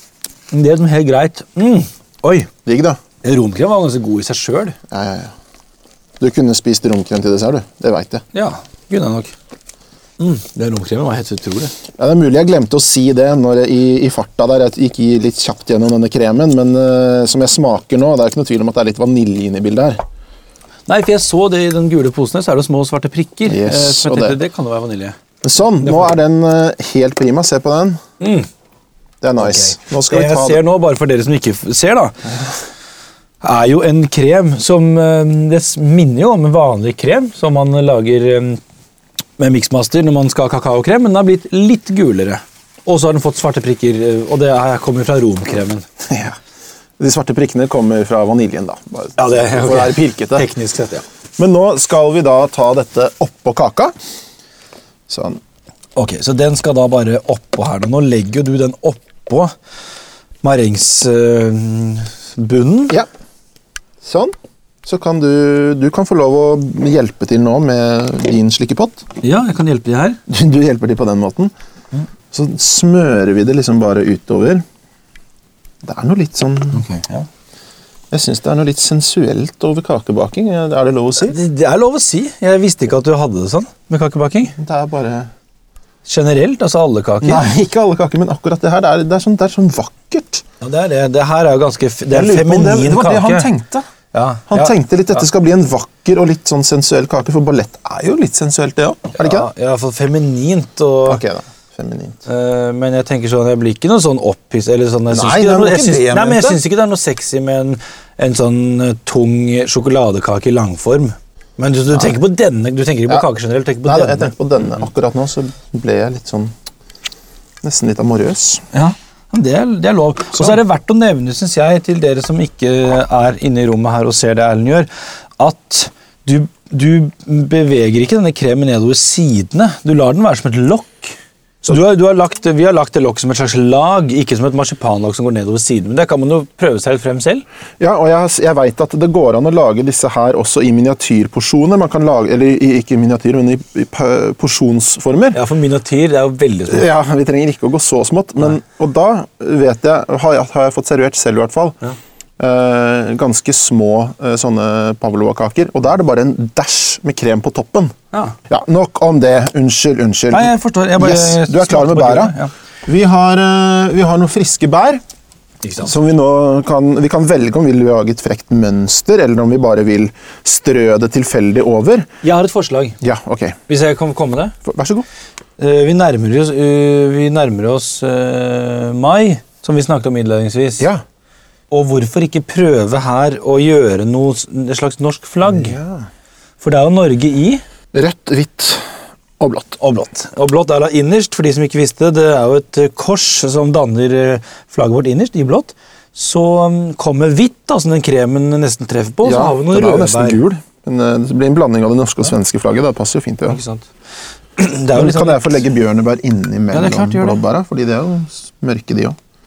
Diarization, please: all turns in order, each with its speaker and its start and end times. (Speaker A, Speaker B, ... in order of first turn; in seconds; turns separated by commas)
Speaker A: 0.5-2.5, Speaker B: 2.6-3.0, Speaker A: 3.2-4.8, Speaker B: 4.9-5.3, Speaker B: 6.2-8.2, Speaker A: 8.3-9.3, Speaker A: 10.2-11.7, Speaker B: 12.0-20.0, Speaker A: 20.9-25.2, Speaker B: 23.5-24.4, Speaker B: 25.4-28.0, Speaker A: 25.8-26.2, Speaker A: 28.2-28.5, Speaker B: 29.2-30.6, Speaker A: 29.4-32.3, Speaker A: 33.4-38.6, Speaker A: 39.4-45.9, Speaker B: 46.0-46.4, Speaker B: 47.0-50.5, Speaker A: 49.2-51.0, Speaker B: 51.4-53.9, Speaker B: 55.1-55.4, Speaker A: 56.0-59.5, Speaker A: 60.4-63.0, Speaker B: 64.0-69.0, Speaker A: 69.2-70.2, Speaker B: 70.3-71.5, Speaker B: 72.3-74.6, Speaker B: 75.8-76.8, Speaker A: 76.7-77.3, Speaker B: 78.1-81.4, Speaker A: 81.2-84.6, Speaker B: 84.6-85.3, Speaker A: 86.1-87.5, Speaker B: 87.2-90.4, Speaker A: 90.6-93.5, Speaker B: 92.1-93.9, Speaker A: 94.1-94.8, Speaker B: 94.5-99.5, Speaker A: 99.2-101.2, Speaker B: 101.1-102.2, Speaker A: 102.3-114.3, Speaker B: 105.1-106.6, Speaker B: 113.8-116.5, Speaker B: 117.6-118.6, Speaker A: 118.7-124.9, Speaker A: 125.4-131.2, Speaker A: 131.7-137.4, Speaker B: 137.8-145.4, Speaker A: 145.3-146.9, Speaker B: 146.7-151.8, Speaker B: 152.4-157.9, Speaker B: 158.5-162.3, Speaker A: 160.3-162.5, Speaker B: 162.9-165.0, Speaker A: 165.6-165.9, Speaker B: 165.8-172.1, Speaker A: 172.2-173.0, Speaker B: 173.0-173.6, Speaker A: 173.7-174.6, Speaker B: 174.6-175.1, Speaker A: 175.6-180.9, Speaker A: 181.7-185.8, Speaker B: 185.5-186.1, Speaker A: 186.6-187.6, Speaker B: 187.9-188.9, Speaker B: 189.4-189.8, Speaker A: 189.8-200.4, Speaker B: 199.2-203.6, Speaker A: 203.5-203.8, Speaker A: 204.6-205.6, Speaker B: 204.9-209.2, Speaker A: 206.7-207.4